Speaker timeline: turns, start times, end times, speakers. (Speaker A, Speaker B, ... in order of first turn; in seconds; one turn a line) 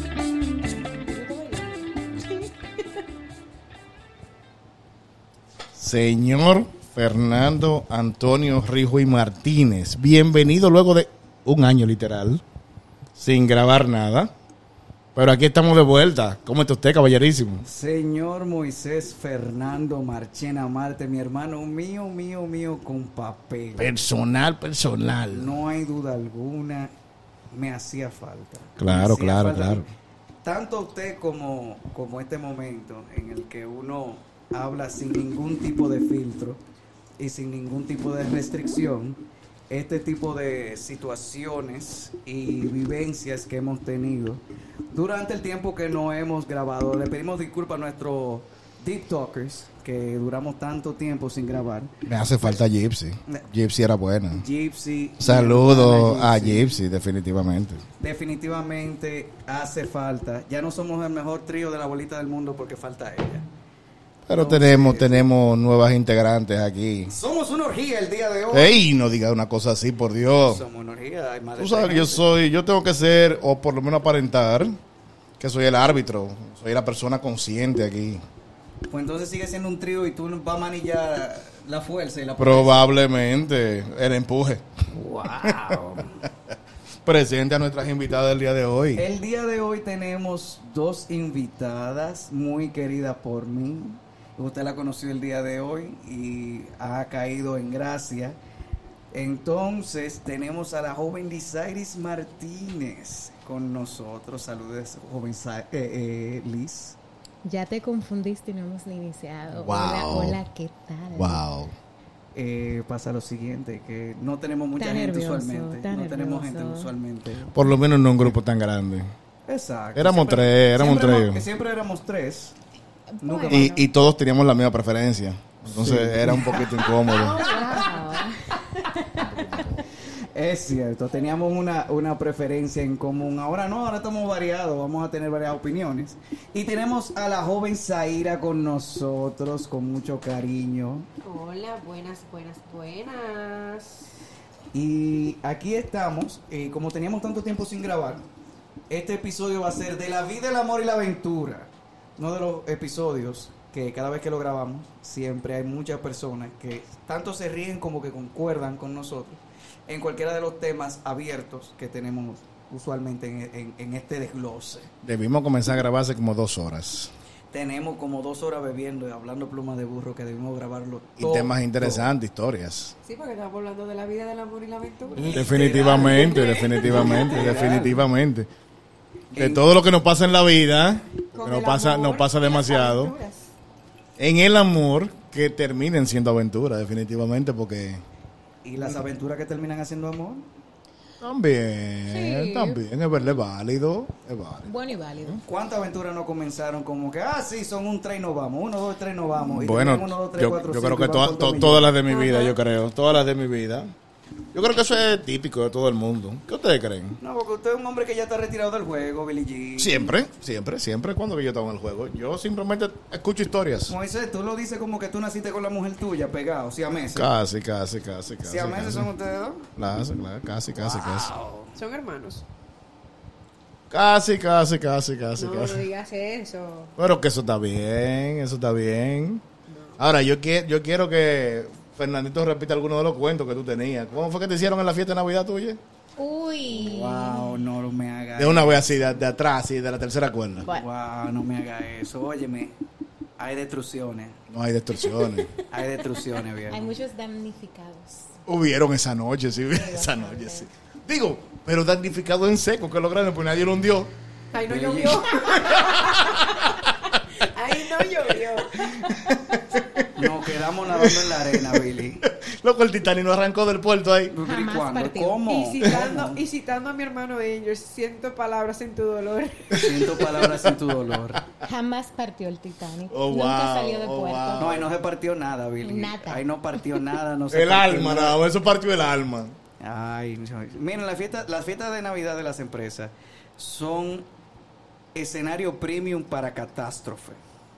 Speaker A: 0.9-2.4
Speaker B: 5.7-12.4
Speaker B: 13.2-14.3
Speaker B: 15.1-17.6
Speaker C: 17.6-23.9
Speaker B: 23.8-25.5
Speaker C: 25.3-26.9
Speaker C: 27.5-29.8
Speaker B: 28.8-29.9
Speaker C: 30.4-36.6
Speaker C: 37.2-51.9
Speaker B: 52.0-54.4
Speaker C: 54.4-56.8
Speaker B: 55.2-57.8
Speaker C: 58.0-63.5
Speaker B: 64.2-67.1
Speaker C: 64.3-65.2
Speaker C: 67.1-68.7
Speaker B: 68.5-70.6
Speaker C: 70.5-72.2
Speaker B: 71.6-74.7
Speaker B: 75.4-78.2
Speaker C: 78.9-82.9
Speaker B: 82.4-84.7
Speaker C: 84.9-86.2
Speaker B: 85.4-85.8
Speaker B: 87.0-89.0
Speaker C: 89.0-98.4
Speaker C: 99.1-107.0
Speaker A: 107.4-111.4
Speaker B: 109.5-110.4
Speaker B: 111.1-111.7
Speaker C: 112.3-117.6
Speaker A: 114.8-116.9
Speaker B: 117.5-119.1
Speaker C: 119.5-122.5
Speaker B: 120.0-121.4
Speaker C: 123.2-123.6
Speaker D: 123.2-123.8
Speaker A: 123.3-123.7
Speaker B: 123.5-127.5
Speaker C: 125.7-126.8
Speaker D: 127.0-128.3
Speaker A: 127.0-129.6
Speaker B: 129.1-129.8
Speaker C: 130.2-141.1
Speaker D: 141.2-144.0
Speaker C: 144.7-148.2
Speaker C: 148.9-164.9
Speaker B: 165.0-167.1
Speaker C: 167.5-172.1
Speaker B: 171.2-172.9
Speaker D: 173.0-177.5
Speaker C: 175.2-178.0
Speaker B: 175.2-178.5
Speaker C: 179.3-179.6
Speaker B: 179.3-183.1
Speaker D: 181.3-183.5
Speaker B: 184.2-188.0
Speaker C: 188.6-190.5
Speaker B: 191.2-195.4
Speaker A: 192.1-192.8
Speaker A: 194.6-195.4
Speaker C: 195.4-201.9
Speaker B: 199.4-203.9
Speaker D: 202.1-202.6
Speaker B: 204.5-207.2
Speaker C: 207.2-210.1
Speaker B: 209.8-213.9
Speaker C: 213.9-217.3
Speaker B: 217.1-219.1
Speaker C: 218.4-219.7
Speaker B: 219.8-221.3
Speaker C: 220.7-221.7
Speaker D: 221.8-222.4
Speaker B: 223.9-225.8
Speaker D: 225.4-226.9
Speaker B: 227.0-229.4
Speaker D: 229.7-230.0
Speaker B: 230.0-235.8
Speaker A: 236.2-237.7
Speaker C: 236.7-238.8
Speaker B: 238.4-240.7
Speaker C: 240.7-242.8
Speaker C: 243.4-244.4
Speaker B: 244.5-245.5
Speaker D: 245.1-245.5
Speaker C: 245.7-246.9
Speaker A: 246.7-248.3
Speaker B: 248.4-254.1
Speaker A: 249.7-250.7
Speaker D: 254.5-259.1
Speaker C: 254.6-255.3
Speaker B: 255.5-256.7
Speaker B: 258.8-260.1
Speaker C: 260.1-262.2
Speaker B: 260.9-264.3
Speaker C: 264.3-266.4
Speaker A: 264.4-265.4
Speaker D: 265.5-270.2
Speaker B: 269.7-270.9
Speaker C: 269.7-271.4
Speaker A: 271.6-274.7
Speaker B: 273.1-274.9
Speaker C: 274.6-278.4
Speaker A: 275.8-277.0
Speaker B: 277.5-279.6
Speaker C: 279.8-284.3
Speaker C: 285.1-287.4